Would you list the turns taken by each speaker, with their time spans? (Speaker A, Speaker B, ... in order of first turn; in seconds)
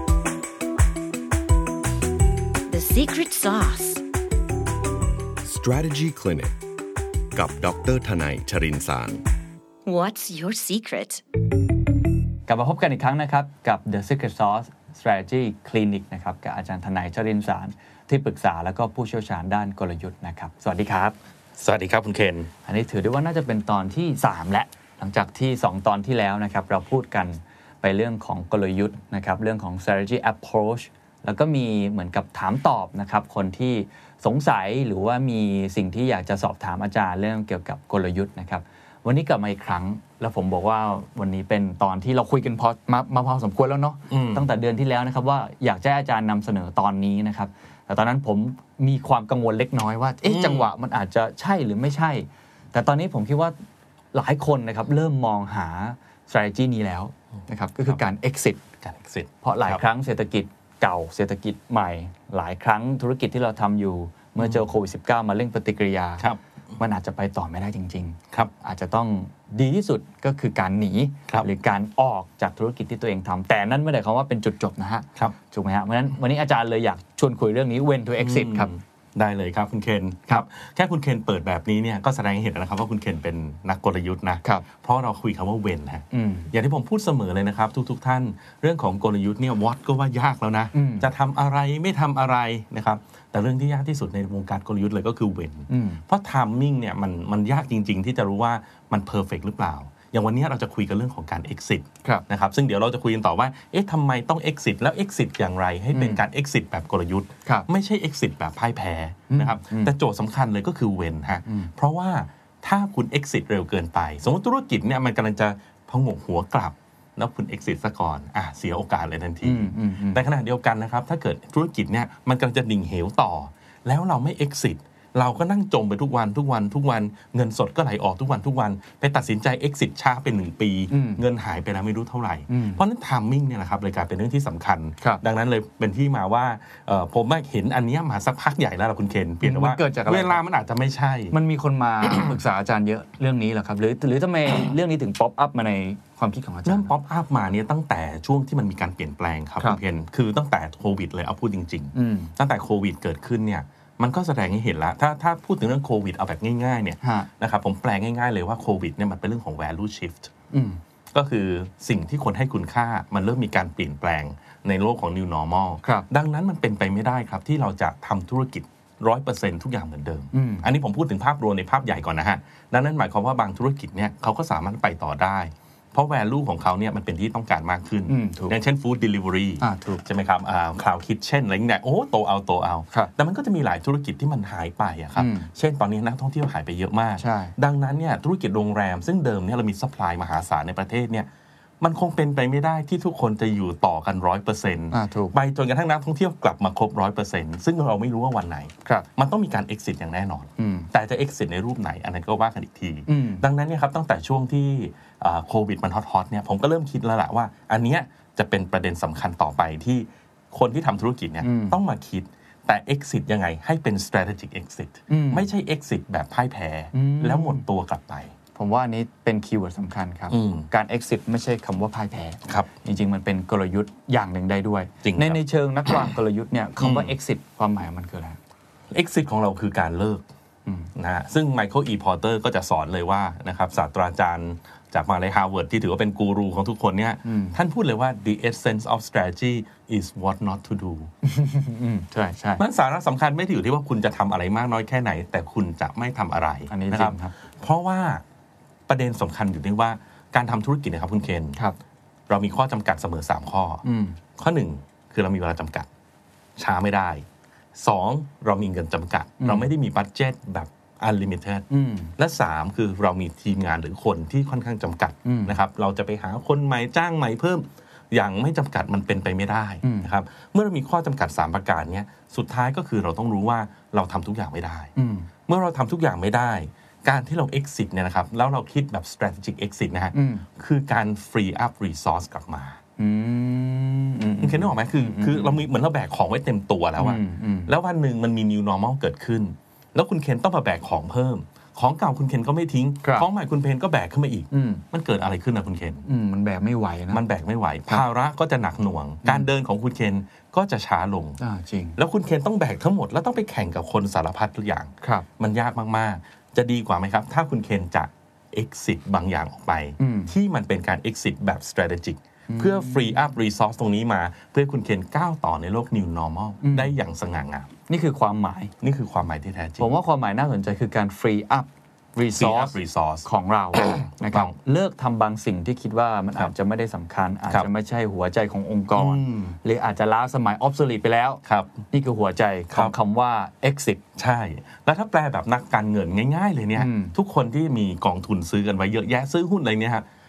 Speaker A: 2.7-4.0, 9.9-11.2
Speaker B: 5.4-6.5, 7.3-9.2
Speaker C: 12.5-21.2, 22.7-53.5, 54.1-58.6, 59.4-66.2, 66.8-78.7, 86.1-86.5, 90.7-91.1, 95.7-96.0, 105.9-106.2, 109.3-109.9, 119.4-120.2, 130.9-131.2, 132.5-132.8, 139.4-140.4, 141.3-146.9, 151.9-152.3, 157.0-157.3, 160.5-160.8, 170.3-170.7, 178.1-178.6, 179.6-180.0, 185.2-185.5, 187.2-187.5, 194.9-195.4, 200.6-200.9, 203.1-203.4, 211.4-211.8, 215.1-215.5, 216.9-217.7, 218.6-228.4, 237.2-237.6, 241.2-242.6, 246.7-247.3, 253.8-254.2, 259.4-259.7, 261.7-262.1, 265.2-265.6, 269.8-270.1, 275.0-275.3, 280.1-280.4, 283.0-285.6, 287.0-287.7, 294.5-294.8, 296.1-297.2, 301.4-302.0, 310.0-310.3, 312.5-313.3, 316.6-316.9, 317.9-318.7, 319.8-334.0, 336.8-337.1
Speaker D: 21.6-22.5, 44.1-44.5, 50.2-50.7, 58.8-59.8, 78.2-141.3, 142.0-142.4, 146.7-160.3, 161.1-191.3, 191.8-218.3, 220.3-220.7, 225.0-225.4, 226.8-227.1, 228.9-230.3, 230.9-241.1, 242.6-248.2, 248.9-251.6, 252.3-253.8, 254.4-255.9, 256.6-261.6, 262.2-274.9, 275.5-282.8, 284.4-296.0, 297.1-301.4, 302.0-317.7, 318.8-320.0, 322.4-324.6, 328.9-329.6, 331.4-331.8, 334.2-340.1